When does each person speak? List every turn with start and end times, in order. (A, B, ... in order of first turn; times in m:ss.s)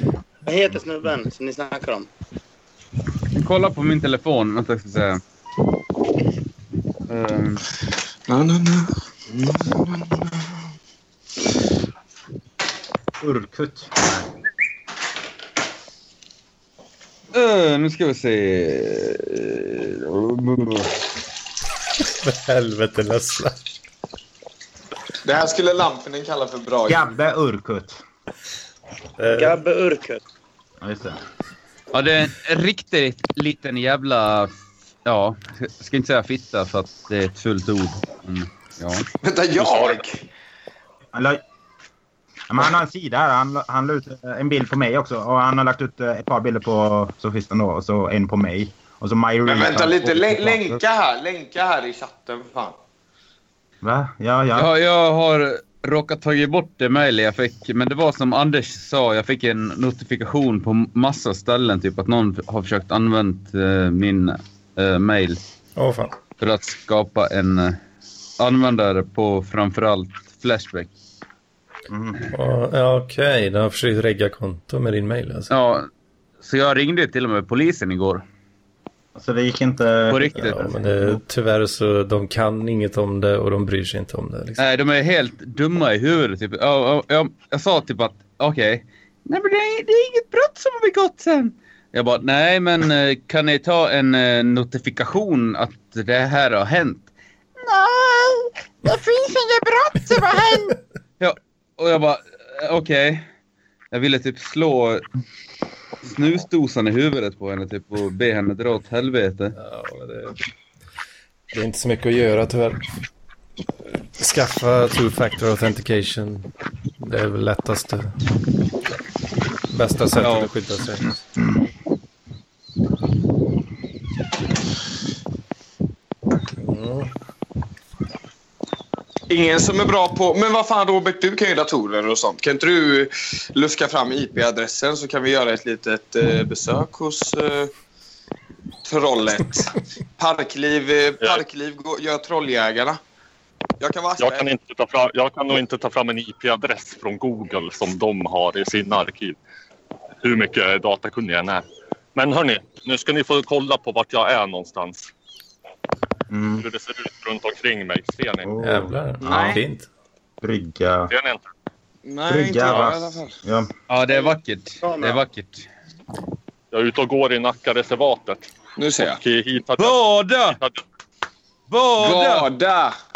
0:00.4-0:02.1 A
0:03.4-0:05.2 B
0:07.1-0:07.6 B
0:08.3-0:10.5 C
0:13.2-0:14.3 D
0:17.3-0:21.0 B
0:22.2-0:23.6 E
0:25.2-0:27.1 C
0:26.9-0:28.0 D
0:29.2-0:29.6 E
0:29.3-0:30.2 A
0:30.8-0:31.2 D
0:31.9-0:34.5 B
0:35.0-0:39.1 B
0:39.2-0:40.3 C
0:39.6-0:40.0 F
0:41.1-0:41.4 D
0:42.5-0:50.8 D
0:49.4-0:52.8 C
0:53.8-0:54.7 D
0:54.6-1:05.4 B
1:05.8-1:06.1 E
1:06.4-1:07.8 B
1:08.4-1:10.9 B
1:11.9-1:12.2 D
1:12.3-1:15.5 E
1:15.5-1:15.9 B
1:16.4-1:18.2 B
1:19.1-1:21.2 D
1:20.1-1:20.6 B
1:20.4-1:24.6 E
1:24.6-1:37.1 B
1:37.6-1:43.3 B
1:43.9-1:45.0 B
1:46.0-1:49.6 B
1:49.6-1:50.4 E
1:51.5-1:52.9 E
1:54.2-1:56.5 E
1:57.0-1:58.1 E
1:59.7-2:01.2 E
2:00.2-2:00.5 B
2:06.6-2:07.1 E
2:09.3-2:17.7 C
2:18.8-2:23.0 C
2:23.8-2:24.5 C
2:24.2-2:29.4 F
2:30.2-2:35.1 F
2:36.3-2:36.6 D
2:36.6-2:38.5 F
2:38.4-2:39.6 D
2:38.6-2:39.9 E
2:39.2-2:39.6 C
2:40.4-2:41.1 D
2:41.1-2:41.4 F
2:42.0-2:43.4 C
2:42.3-2:43.7 D
2:43.9-2:45.7 B
2:44.1-2:45.2 A
2:46.7-2:48.5 F
2:48.8-2:49.2 C
2:49.0-2:50.8 F
2:49.8-2:50.6 B
2:51.7-2:52.5 B
2:52.0-2:53.0 C